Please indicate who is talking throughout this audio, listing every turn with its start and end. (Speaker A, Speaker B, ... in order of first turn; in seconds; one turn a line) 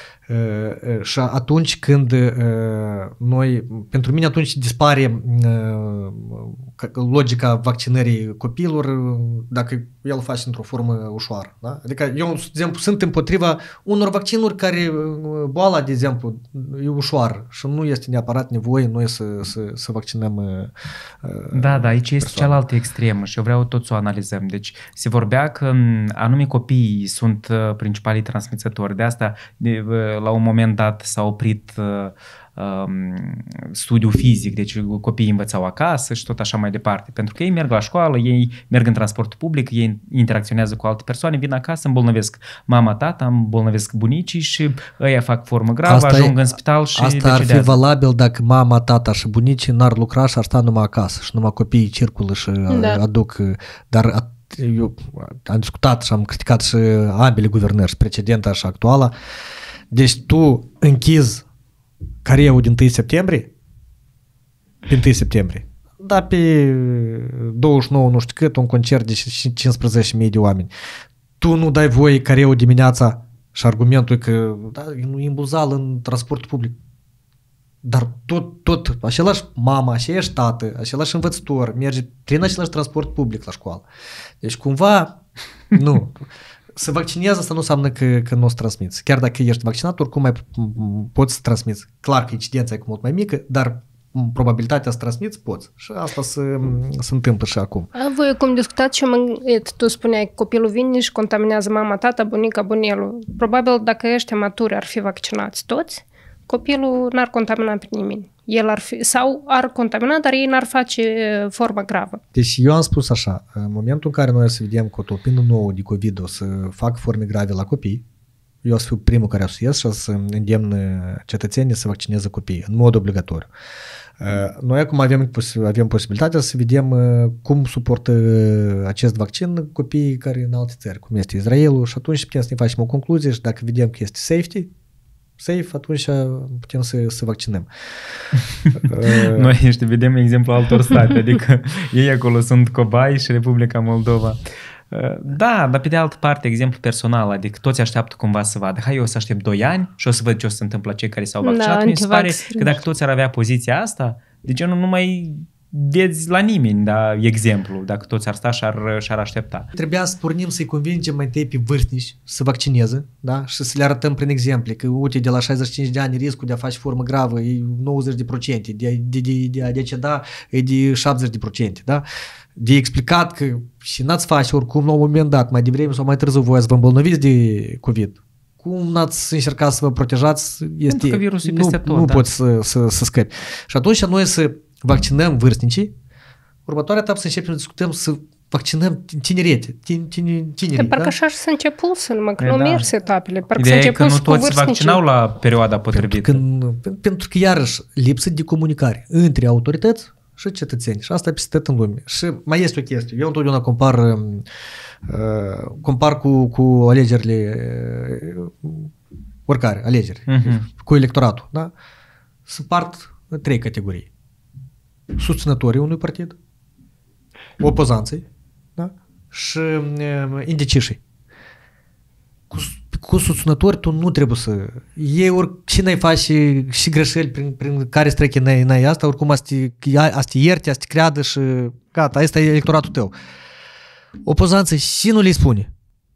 Speaker A: 0.3-22.6
Speaker B: 21.5-47.8
Speaker A: 45.9-46.4
Speaker A: 47.0-59.1
Speaker C: 52.7-53.0
Speaker A: 59.9-61.5
Speaker A: 62.2-63.5
Speaker A: 64.9-70.7
Speaker A: 71.4-76.8
Speaker A: 77.8-83.9
Speaker A: 84.4-85.2
Speaker A: 85.7-97.9
Speaker C: 98.0-112.2
Speaker A: 112.3-118.0
Speaker A: 118.6-123.5
Speaker A: 124.2-134.7
Speaker A: 135.4-137.7
Speaker B: 138.6-144.4
Speaker A: 138.8-139.5
Speaker B: 144.9-159.7
Speaker C: 151.4-152.8
Speaker A: 159.8-172.0
Speaker A: 172.6-185.9
Speaker B: 180.9-182.3
Speaker A: 186.7-191.1
Speaker C: 190.8-195.0
Speaker B: 192.4-192.9
Speaker B: 193.6-196.4
Speaker A: 195.9-204.4
Speaker A: 205.1-208.9
Speaker A: 209.5-211.7
Speaker B: 210.3-210.7
Speaker A: 212.5-214.1
Speaker A: 215.2-216.4
Speaker A: 217.6-221.0
Speaker A: 222.5-233.1
Speaker A: 234.2-235.7